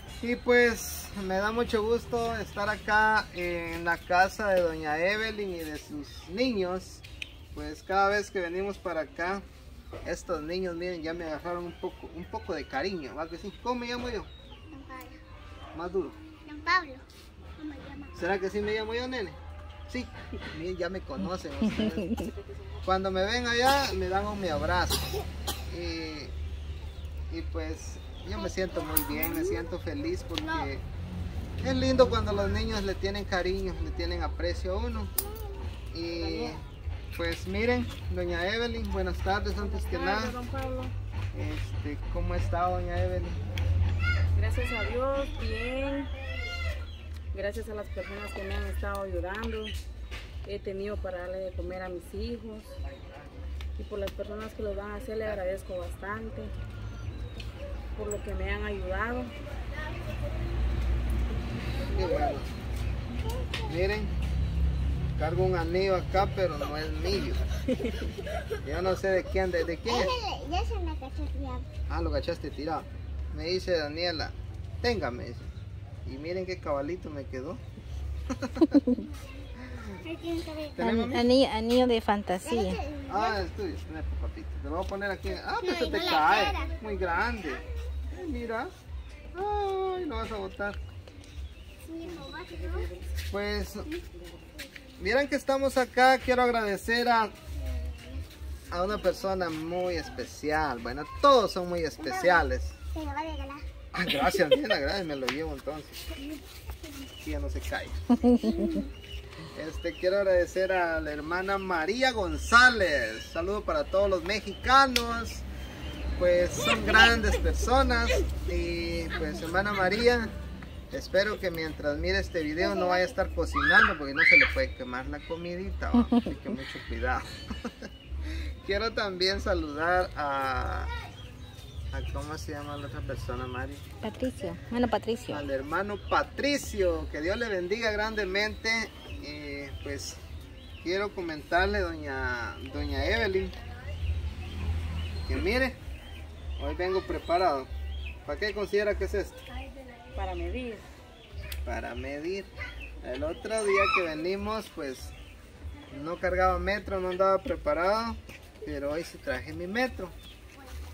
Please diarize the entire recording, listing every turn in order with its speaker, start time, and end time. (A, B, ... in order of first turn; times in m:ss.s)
0:00.2-0:09.4 A
0:10.0-0:14.3 A
0:14.7-0:15.2 B
0:15.7-0:16.2 A
0:16.4-0:17.0 B
0:17.6-0:18.1 B
0:18.1-0:19.4 A
0:19.9-0:22.3 A
0:22.8-0:26.3 A
0:27.3-0:30.8 A
0:29.2-0:29.6 B
0:31.6-0:35.1 A
0:35.9-0:36.6 A
0:36.2-0:36.6 C
0:37.1-0:40.4 A
0:39.6-0:40.9 C
0:41.3-0:43.4 A
0:44.3-0:46.1 C
0:47.3-0:49.7 C
0:50.4-0:52.8 C
0:52.8-0:53.3 D
0:53.8-0:56.5 C
0:57.9-0:59.3 C
1:01.9-1:02.5 A
1:03.6-1:04.1 A
1:05.2-1:07.5 A
1:08.6-1:10.1 A
1:09.8-1:11.7 B
1:11.9-1:15.5 A
1:16.0-1:17.6 A
1:18.3-1:18.8 A
1:19.6-1:20.0 A
1:20.0-1:20.9 B
1:20.8-1:21.3 A
1:20.8-1:22.8 D
1:22.4-1:23.4 B
1:23.1-1:28.7 A
1:25.6-1:26.7 B
1:29.3-1:30.8 A
1:31.8-1:32.9 B
1:32.0-1:33.1 C
1:33.3-1:33.9 A
1:35.0-1:37.3 A
1:37.6-1:38.2 B
1:38.7-1:42.8 A
1:42.0-1:43.6 B
1:43.9-1:46.0 A
1:47.2-1:48.0 A
1:48.4-1:48.9 B
1:49.5-1:55.4 A
1:56.2-2:00.3 A
2:00.9-2:07.9 A
2:08.6-2:10.9 A
2:11.9-2:13.8 A
2:14.0-2:15.4 D
2:15.3-2:20.2 A
2:20.8-2:23.6 A
2:25.2-2:25.8 A
2:26.6-2:27.7 A
2:28.2-2:29.4 A
2:30.1-2:30.8 C
2:31.6-2:32.5 A
2:33.0-2:35.1 A
2:35.9-2:40.1 A